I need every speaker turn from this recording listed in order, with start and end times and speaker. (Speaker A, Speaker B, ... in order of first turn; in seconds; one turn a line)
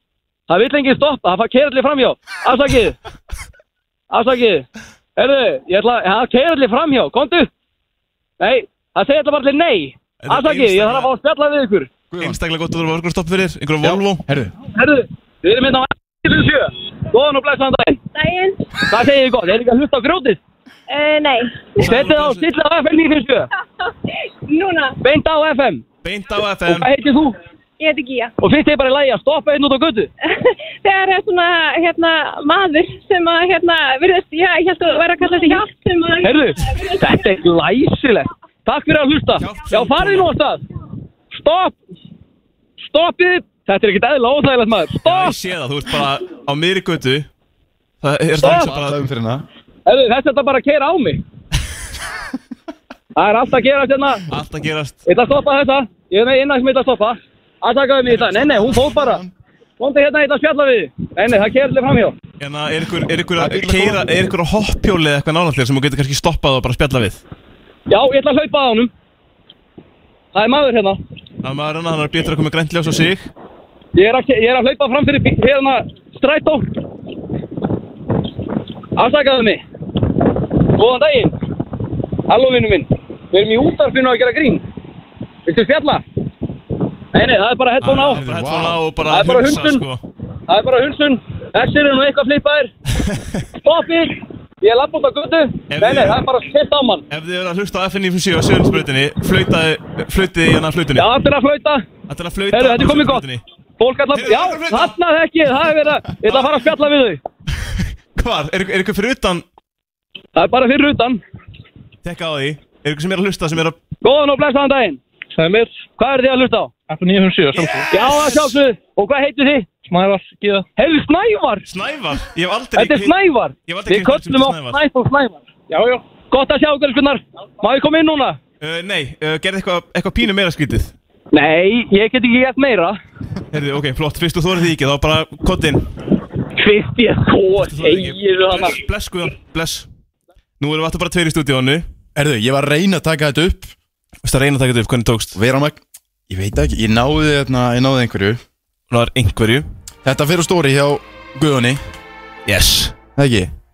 Speaker A: 0.5-3.0
Speaker A: 4.1-4.7
Speaker A: 5.2-7.5
Speaker A: 8.4-11.9
Speaker B: 10.2-11.1
Speaker C: 12.1-12.4
Speaker B: 12.2-14.2
Speaker C: 13.8-14.5
Speaker A: 14.7-18.0
Speaker D: 18.1-18.7
Speaker A: 18.8-20.4
Speaker D: 20.9-21.8
Speaker B: 21.8-22.4
Speaker A: 21.8-23.5
Speaker D: 24.5-25.0
Speaker A: 25.0-25.8
Speaker B: 26.0-26.9
Speaker A: 26.6-27.4
Speaker D: 27.8-28.3
Speaker A: 28.4-30.1
Speaker D: 30.3-37.2
Speaker A: 36.2-40.6
Speaker B: 39.4-40.4
Speaker A: 41.3-41.8
Speaker A: 42.8-45.4
Speaker B: 45.0-47.3
Speaker B: 48.0-49.0
Speaker A: 48.4-48.7
Speaker C: 48.4-49.5
Speaker A: 49.9-51.2
Speaker A: 53.1-54.3
Speaker B: 54.3-55.0
Speaker A: 55.0-59.2
Speaker C: 58.1-59.3
Speaker A: 59.8-62.1
Speaker B: 62.4-67.2
Speaker C: 63.4-64.1
Speaker A: 67.9-68.9
Speaker A: 70.3-71.0
Speaker B: 71.4-73.3
Speaker A: 74.0-76.7
Speaker A: 79.0-79.6
Speaker A: 80.7-81.3
Speaker A: 82.3-84.6
Speaker A: 85.5-86.0
Speaker A: 87.1-88.2
Speaker B: 87.8-90.0
Speaker C: 88.1-88.8
Speaker A: 89.0-89.8
Speaker A: 90.5-92.7
Speaker A: 93.6-97.0
Speaker B: 95.7-96.2
Speaker B: 97.1-101.1
Speaker A: 100.9-101.8
Speaker B: 102.1-103.4
Speaker A: 102.5-103.2
Speaker A: 103.8-107.2
Speaker B: 104.1-105.0
Speaker B: 108.2-109.4
Speaker A: 110.3-111.2
Speaker B: 112.0-113.8
Speaker A: 114.0-116.7
Speaker E: 115.4-115.7
Speaker E: 116.9-117.8
Speaker B: 117.5-118.6
Speaker A: 117.9-119.7
Speaker E: 119.8-120.7
Speaker A: 120.8-121.6
Speaker B: 121.7-123.1
Speaker A: 122.8-125.4
Speaker B: 123.7-124.8
Speaker E: 125.7-126.0
Speaker A: 126.2-128.4
Speaker B: 128.6-130.9
Speaker A: 131.3-133.0
Speaker B: 133.5-135.8
Speaker A: 136.6-138.8
Speaker B: 137.6-139.9
Speaker B: 140.6-141.9
Speaker C: 142.1-143.7
Speaker B: 144.2-145.3
Speaker C: 145.3-148.4
Speaker B: 148.9-149.7
Speaker C: 150.0-151.8
Speaker B: 152.4-152.9
Speaker C: 153.2-153.5